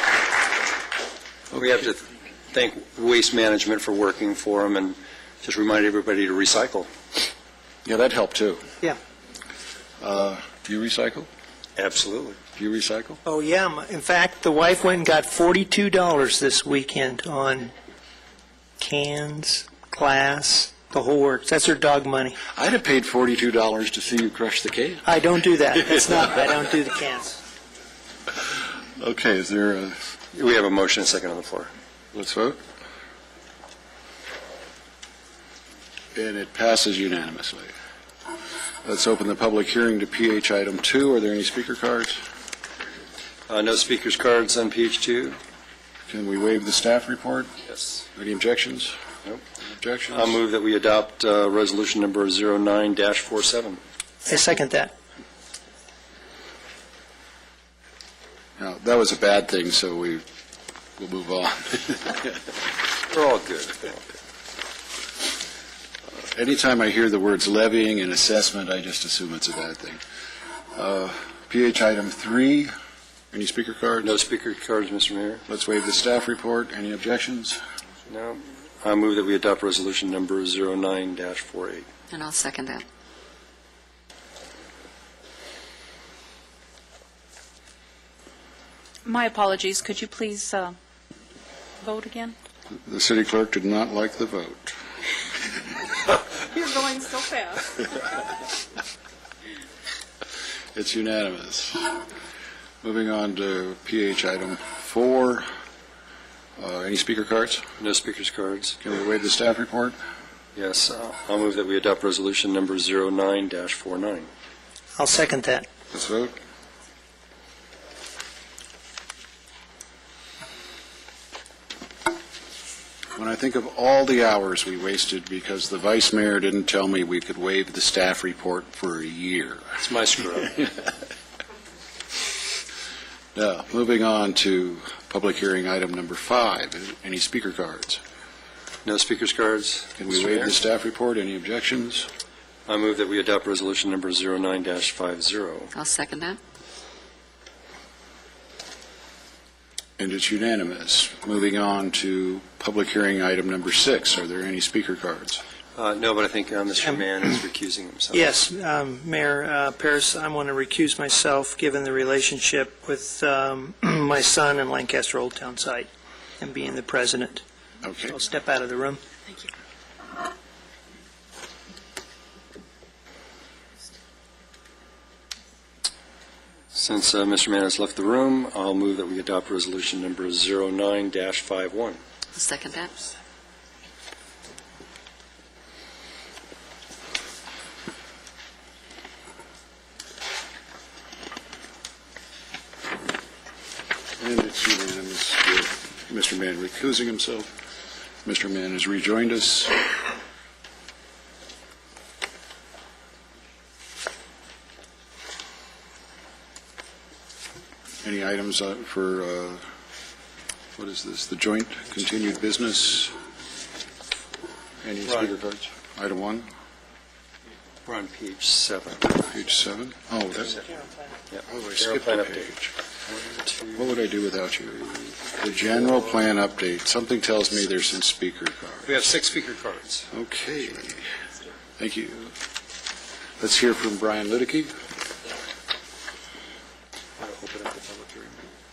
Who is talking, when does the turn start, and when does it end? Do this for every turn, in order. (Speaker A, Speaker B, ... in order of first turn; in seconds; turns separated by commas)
Speaker A: 1.5-6.9, Speaker B: 7.8-8.6, Speaker B: 10.0-11.3, Speaker A: 11.8-12.4, Speaker B: 12.6-13.2, Speaker C: 13.2-17.7, Speaker C: 18.8-22.4, Speaker B: 22.5-25.1, Speaker C: 25.0-27.4, Speaker B: 25.7-26.4, Speaker B: 28.9-30.0, Speaker A: 30.3-31.7, Speaker B: 32.1-32.6, Speaker B: 36.1-37.7, Speaker B: 38.8-42.2, Speaker A: 43.5-45.4, Speaker B: 46.1-47.5, Speaker B: 48.1-48.9, Speaker B: 49.6-50.4, Speaker A: 50.1-53.8, Speaker C: 54.3-54.9, Speaker B: 58.6-60.2, Speaker B: 61.0-62.4, Speaker A: 63.1-64.0, Speaker B: 66.3-70.0, Speaker B: 70.8-72.7, Speaker B: 73.3-74.1, Speaker A: 74.0-75.4, Speaker B: 75.5-77.6, Speaker A: 78.1-81.9, Speaker D: 82.1-82.8, Speaker E: 89.0-90.8, Speaker E: 91.8-92.4, Speaker B: 92.9-94.8, Speaker E: 96.5-97.6, Speaker B: 100.8-102.0, Speaker B: 102.8-105.5, Speaker B: 106.6-107.7, Speaker A: 107.8-108.8, Speaker B: 108.8-110.0, Speaker A: 110.5-114.3, Speaker C: 115.0-115.7, Speaker B: 115.9-116.3, Speaker B: 123.2-129.8, Speaker A: 129.8-130.7, Speaker B: 133.3-138.0, Speaker A: 138.8-140.6, Speaker B: 140.0-142.1, Speaker A: 142.7-145.7, Speaker D: 145.7-146.4, Speaker B: 150.0-155.4, Speaker A: 155.8-158.3, Speaker C: 158.1-165.9, Speaker C: 166.4-167.4, Speaker B: 167.8-168.2, Speaker C: 168.1-169.0, Speaker A: 176.7-182.0, Speaker D: 182.3-182.9, Speaker B: 194.2-197.5, Speaker B: 198.2-199.9, Speaker B: 208.0-209.6, Speaker B: 210.8-213.1, Speaker B: 214.8-216.5, Speaker A: 215.1-215.4, Speaker A: 217.8-219.2, Speaker B: 219.2-220.7, Speaker A: 221.3-222.5, Speaker B: 221.5-222.8, Speaker A: 223.0-223.9, Speaker B: 223.8-228.9, Speaker A: 228.9-230.1, Speaker B: 230.1-231.0, Speaker B: 231.8-232.3, Speaker B: 233.4-234.7, Speaker A: 237.2-238.4